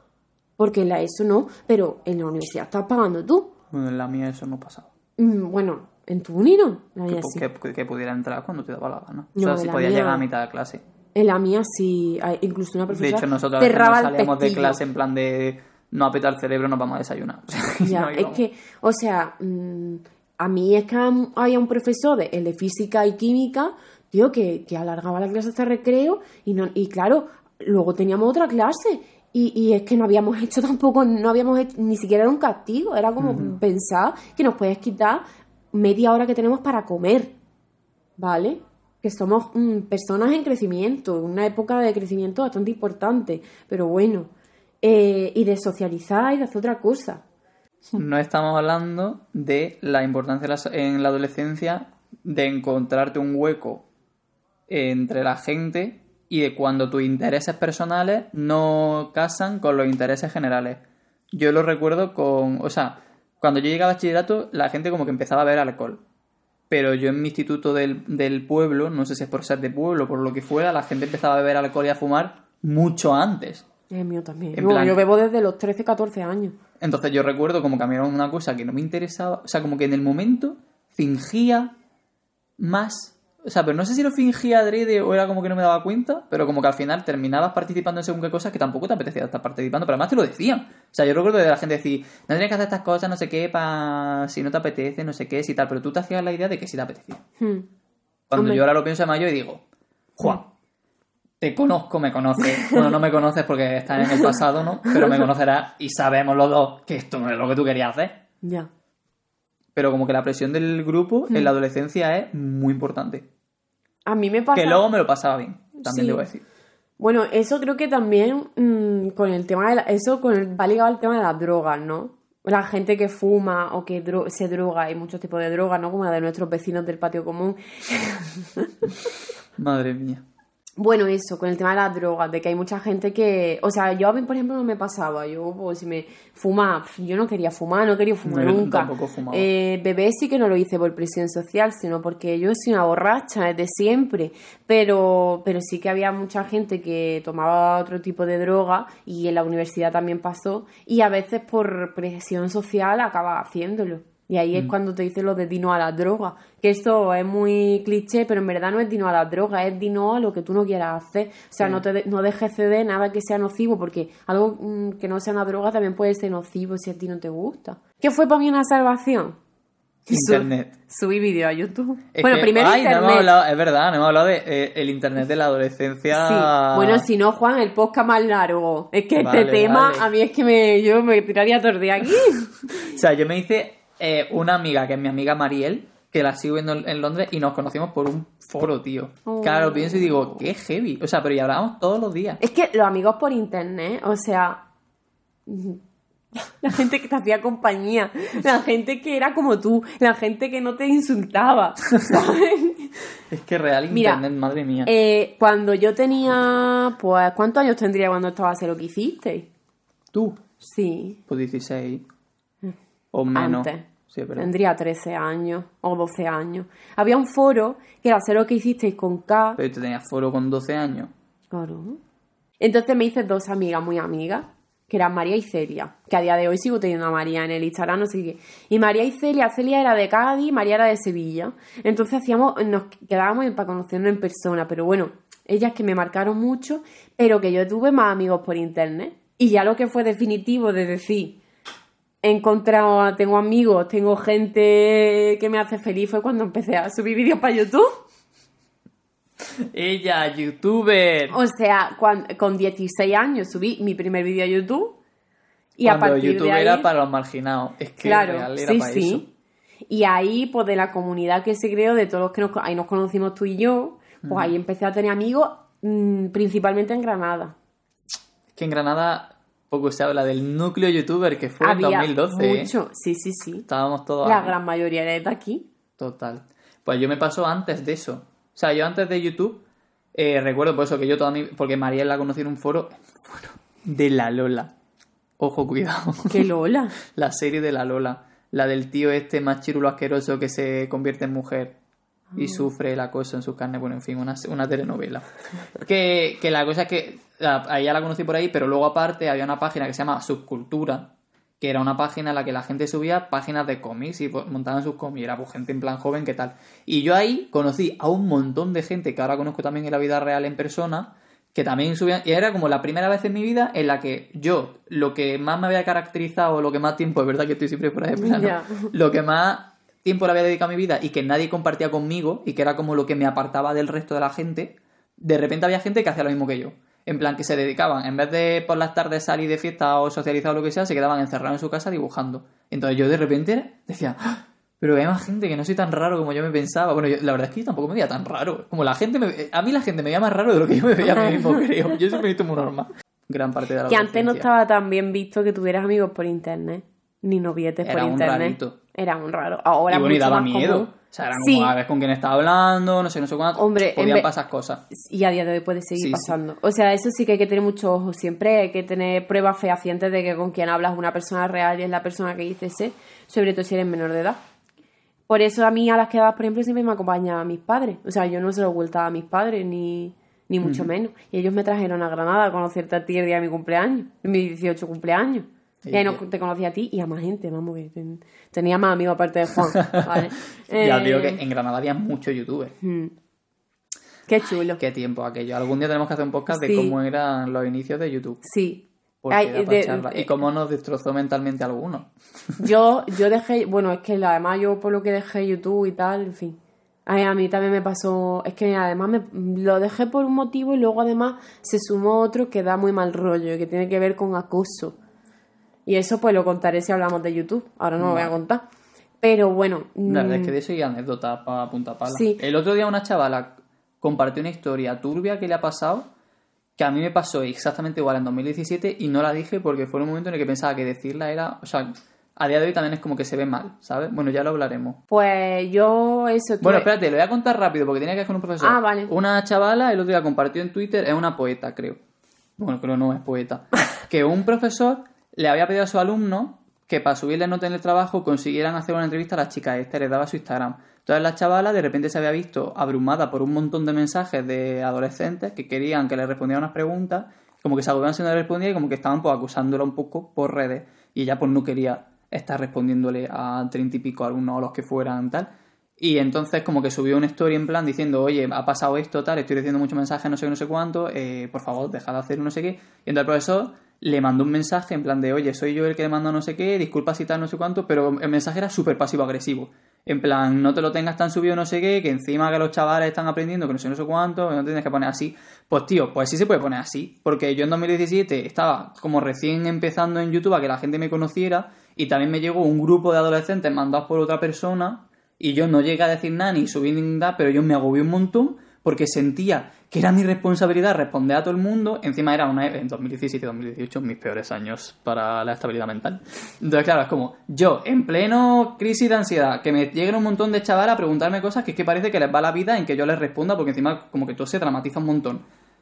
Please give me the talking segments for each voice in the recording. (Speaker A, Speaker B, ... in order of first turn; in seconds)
Speaker A: 0.6-3.5, 5.2-7.4, 9.3-10.2, 11.1-14.8, 17.8-35.2, 35.7-37.3, 38.2-44.3, 44.8-47.2, 73.9-76.5, 97.4-97.7, 98.4-98.6, 102.6-102.8, 104.0-104.3, 104.9-105.3, 108.4-108.7, 114.0-114.8, 115.8-116.2, 117.0-129.1, 130.8-169.3, 170.1-173.3, 176.1-182.7, 189.3-190.4, 192.4-194.6, 195.4-195.8, 196.3-202.9, 203.9-204.2, 204.8-209.5, 210.6-211.2, 213.3-219.6, 221.5-222.0, 222.6-241.4, 242.2-248.0, 251.3-255.0, 255.8-256.9, 258.0-259.2, 259.9-267.5, 271.6-273.6, 274.2-275.7, 286.3-286.9, 292.3-292.6, 318.2-318.9, 341.1-341.6, 343.9-351.7, 353.6-354.3, 354.9-364.4, 365.3-381.4, 382.8-383.1, 384.3-384.8, 386.5-386.9, 388.4-390.3, 392.6-404.9, 405.9-408.6, 409.2-410.5, 412.1-412.4, 425.1-426.9, 428.6-429.1
Speaker B: 3.7-4.9, 7.1-10.8, 12.9-18.4, 33.2-33.5, 47.9-53.9, 54.7-60.8, 61.3-66.0, 66.7-73.7, 74.5-75.0, 76.8-81.7, 82.6-97.2, 98.3-99.6, 100.2-100.5, 101.4-108.2, 109.8-113.2, 114.5-116.4, 129.6-130.2, 138.2-139.5, 170.1-170.8, 172.1-177.1, 179.2-180.1, 182.8-192.4, 203.3-204.9, 210.1-210.4, 211.3-212.0, 213.1-214.5, 219.6-221.1, 249.7-251.4, 255.8-259.3, 264.2-264.5, 268.5-272.7, 273.6-274.6, 276.0-279.6, 280.1-284.7, 285.4-286.4, 287.1-291.7, 292.4-301.1, 301.6-344.5, 347.8-348.8, 349.9-354.8, 355.9-356.3, 370.6-370.9, 375.8-376.2, 379.7-382.7, 384.8-388.4, 389.2-392.6, 408.0-408.3, 410.1-416.1, 416.8-425.0, 426.6-432.0, 432.6-505.4